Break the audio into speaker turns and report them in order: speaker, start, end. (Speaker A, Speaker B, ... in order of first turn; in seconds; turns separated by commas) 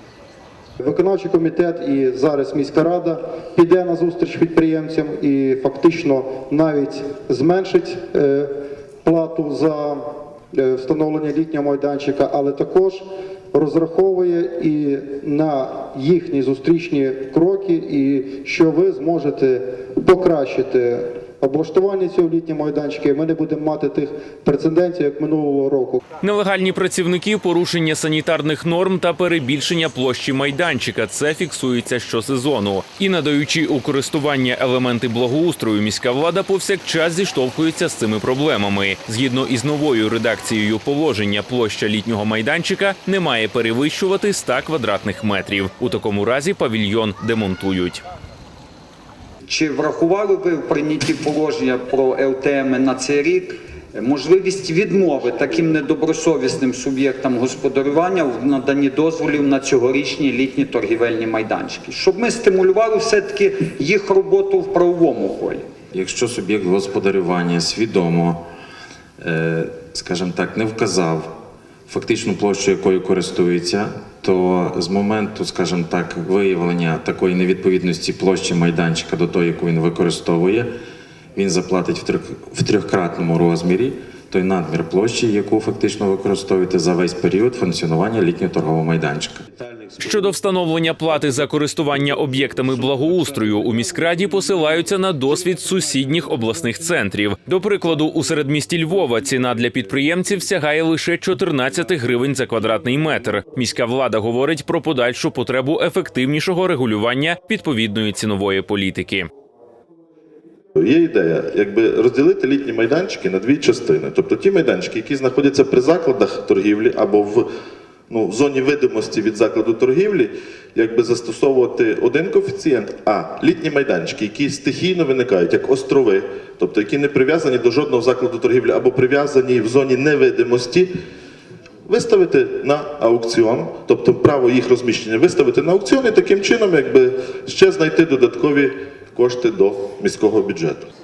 Speaker A: 0.8-8.5, Speaker A: 9.0-10.0, Speaker A: 10.5-13.0, Speaker A: 13.5-26.0, Speaker B: 26.2-48.0, Speaker C: 49.5-65.7, Speaker D: 65.9-68.5, Speaker D: 69.2-71.3, Speaker D: 71.9-80.7, Speaker D: 81.4-89.4, Speaker B: 90.0-109.3, Speaker E: 110.8-117.5, Speaker E: 118.1-130.9, Speaker E: 131.9-140.8